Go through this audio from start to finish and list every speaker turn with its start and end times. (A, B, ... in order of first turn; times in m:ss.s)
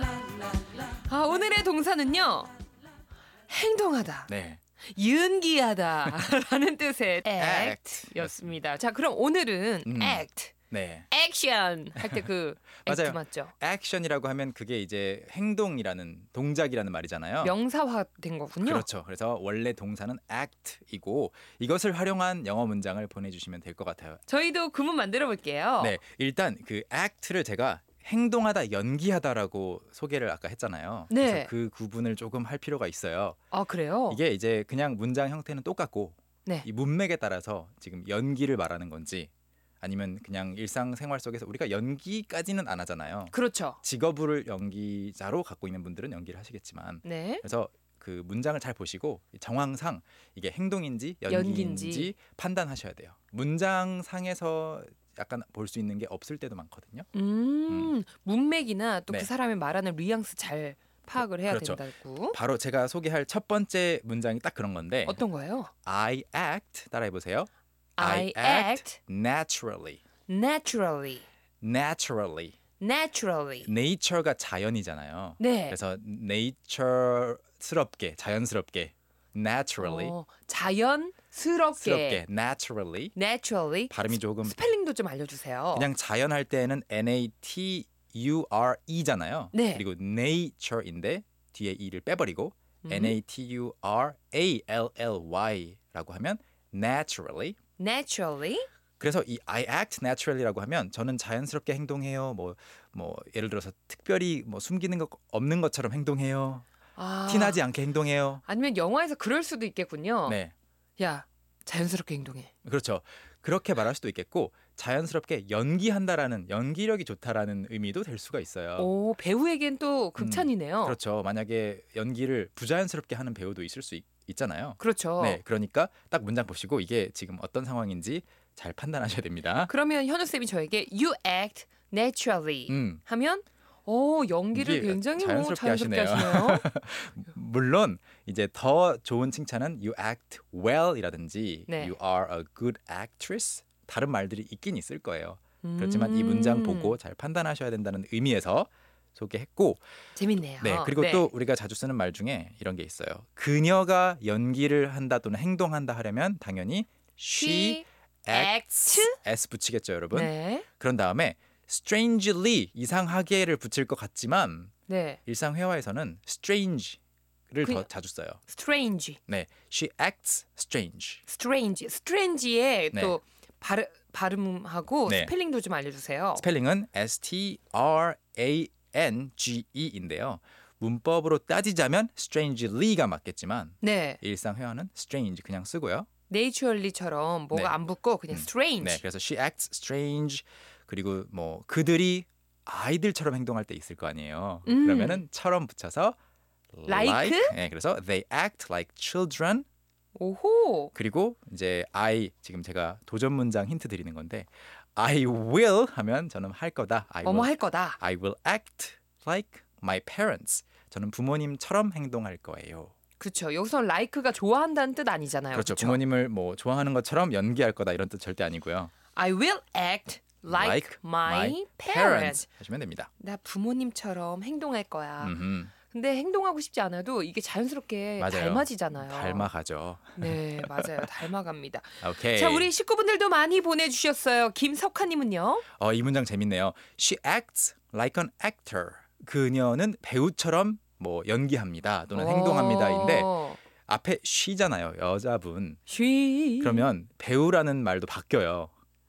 0:01.0-0:02.5 A
0:03.5-0:04.3 A
0:04.3-0:04.6 B
0:04.9-0:10.5 A
0:07.4-0:08.6 B
0:09.9-0:11.1 B
0:11.1-0:13.5 A
0:12.8-0:17.6 B
0:17.4-0:18.8 A
0:18.6-0:24.2 B
0:24.3-0:26.0 A
0:25.8-0:33.4 B
0:31.1-0:31.5 A
0:33.5-0:34.2 A
0:34.1-0:39.3 B
0:39.8-0:57.1 B
0:43.3-0:43.8 A
0:47.0-0:47.4 A
0:51.3-0:52.1 A
0:57.1-1:02.4 A
1:01.2-1:05.2 B
1:05.1-1:05.7 A
1:05.8-1:10.0 B
1:08.0-1:09.0 A
1:10.3-1:11.2 A
1:11.6-1:12.6 B
1:12.8-1:13.7 A
1:13.6-1:20.2 B
1:15.4-1:15.8 A
1:19.8-1:22.2 A
1:21.8-1:23.2 B
1:23.2-1:25.9 A
1:23.9-1:24.6 B
1:25.7-1:37.6 B
1:29.5-1:29.8 A
1:32.8-1:33.2 A
1:37.8-1:38.7 A
1:39.0-1:46.7 B
1:47.0-1:47.6 A
1:47.3-1:48.4 B
1:48.5-1:50.4 A
1:50.3-1:50.5 B
1:51.0-1:52.5 A
1:52.6-1:58.9 B
1:58.8-2:01.0 A
2:00.2-2:09.7 B
2:04.8-2:05.4 A
2:09.7-2:16.6 A
2:12.7-2:13.0 B
2:14.5-2:29.8 B
2:21.7-2:21.9 A
2:25.6-2:27.0 A
2:30.2-2:31.3 A
2:30.6-2:44.8 B
2:37.4-2:39.2 A
2:40.1-2:40.6 A
2:44.9-2:45.2 A
2:45.3-2:47.0 B
2:47.5-2:48.4 B
2:48.5-2:49.2 A
2:49.3-2:51.2 B
2:51.3-2:56.4 A
2:55.1-2:55.3 B
2:56.4-3:06.1 B
3:03.8-3:04.2 A
3:06.3-3:09.0 A
3:08.3-3:16.2 B
3:14.7-3:15.2 A
3:16.7-3:19.7 B
3:16.9-3:17.6 A
3:20.2-3:20.9 A
3:20.9-3:32.9 B
3:27.2-3:28.0 A
3:33.2-3:36.0 A
3:35.5-3:38.9 B
3:39.2-3:42.4 A
3:40.5-3:43.1 B
3:43.2-3:45.4 A
3:45.2-3:45.7 B
3:45.9-3:49.5 A
3:48.2-3:51.1 B
3:50.2-3:55.6 A
3:52.0-3:52.7 B
3:55.8-4:03.3 B
4:02.1-4:03.6 A
4:03.9-4:05.9 B
4:05.9-4:06.9 A
4:06.6-4:08.7 B